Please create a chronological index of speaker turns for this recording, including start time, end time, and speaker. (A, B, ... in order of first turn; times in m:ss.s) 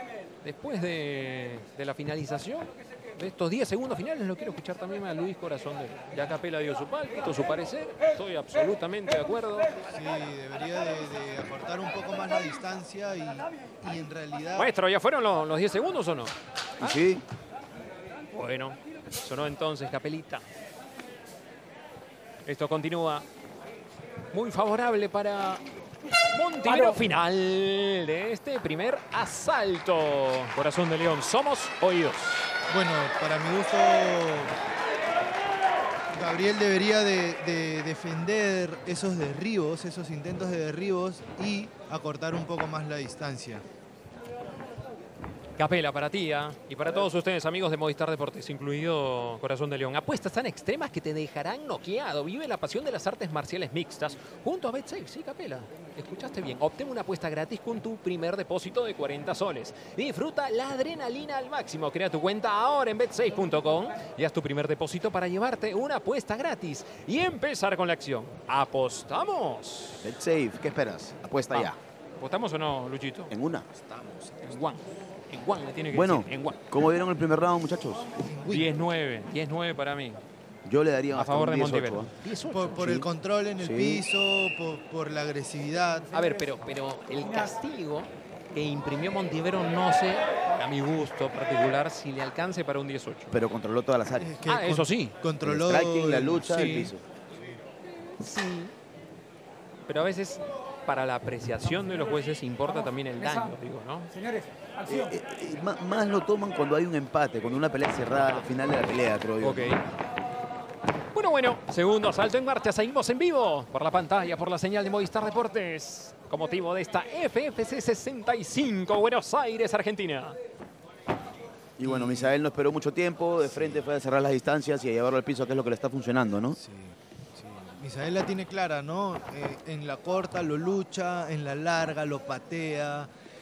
0:00.4-0:09.7 A
0:09.9-0:14.7 B
0:14.6-0:16.3 A
0:16.8-0:17.2 C
0:18.3-0:20.4 A
0:22.4-0:23.2 A
0:24.3-0:25.6 A
0:26.3-0:32.5 A
0:32.7-0:34.6 B
0:36.1-0:43.6 B
0:45.6-1:10.1 A
1:10.0-1:11.8 C
1:11.5-1:13.3 A
1:13.3-1:13.7 C
1:13.7-1:14.8 B
1:14.4-1:16.6 A
1:15.9-1:18.2 C
1:18.2-1:18.7 B
1:18.5-1:20.2 A
1:20.6-1:22.1 C
1:21.1-1:23.0 A
1:22.5-1:26.3 B
1:22.8-1:23.1 C
1:23.6-1:24.0 C
1:26.1-1:33.4 A
1:33.3-1:34.4 C
1:34.2-1:37.6 B
1:34.5-1:35.2 A
1:35.4-1:37.0 C
1:36.5-1:36.9 A
1:38.2-1:38.7 A
1:39.9-1:44.1 A
1:44.1-1:45.1 B
1:44.9-1:49.8 C
1:49.4-1:49.8 A
1:51.1-2:00.4 A
2:01.8-2:06.6 C
2:01.8-2:02.4 B
2:03.5-2:03.8 B
2:06.6-2:13.1 B